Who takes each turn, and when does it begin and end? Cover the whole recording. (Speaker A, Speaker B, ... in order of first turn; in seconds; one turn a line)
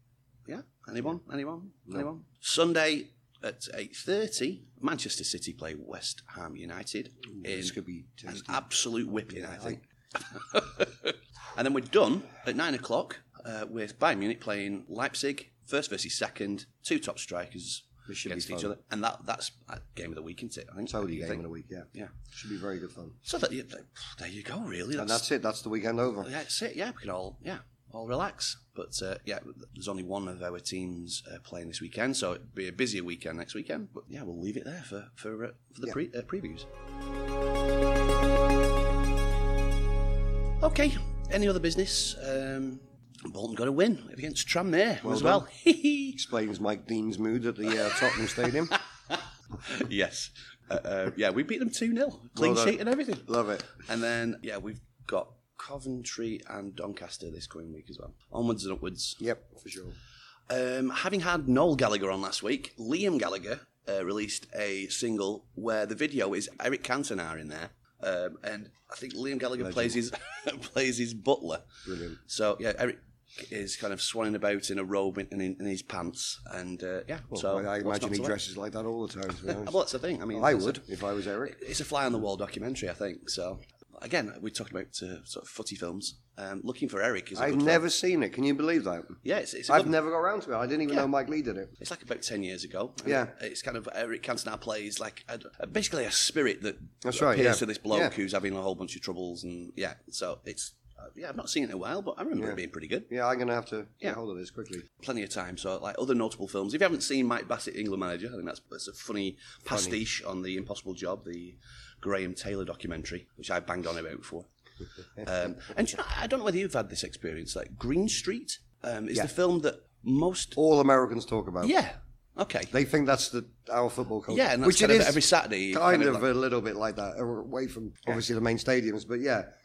Speaker A: 0.5-7.8
Speaker B: 7.4-8.6
Speaker A: 8.3-22.2
Speaker B: 9.3-9.8
Speaker B: 18.1-18.8
Speaker B: 20.9-23.2
Speaker A: 23.2-25.2
Speaker B: 25.0-26.3
Speaker A: 26.2-36.7
Speaker A: 40.6-46.2
Speaker B: 45.0-45.5
Speaker B: 46.1-48.8
Speaker A: 48.4-59.2
Speaker B: 52.4-53.7
Speaker B: 59.2-60.0
Speaker A: 60.5-78.4
Speaker B: 69.6-70.0
Speaker B: 71.9-72.2
Speaker B: 77.3-79.8
Speaker A: 79.4-80.8
Speaker B: 80.3-81.6
Speaker A: 81.5-87.8
Speaker B: 87.3-91.7
Speaker A: 89.2-90.0
Speaker A: 91.8-103.1
Speaker B: 93.0-93.3
Speaker B: 97.0-98.2
Speaker B: 102.4-104.8
Speaker A: 104.9-114.5
Speaker B: 109.7-110.0
Speaker A: 115.2-120.6
Speaker B: 120.6-121.7
Speaker A: 121.6-122.7
Speaker B: 122.7-129.5
Speaker A: 124.3-126.3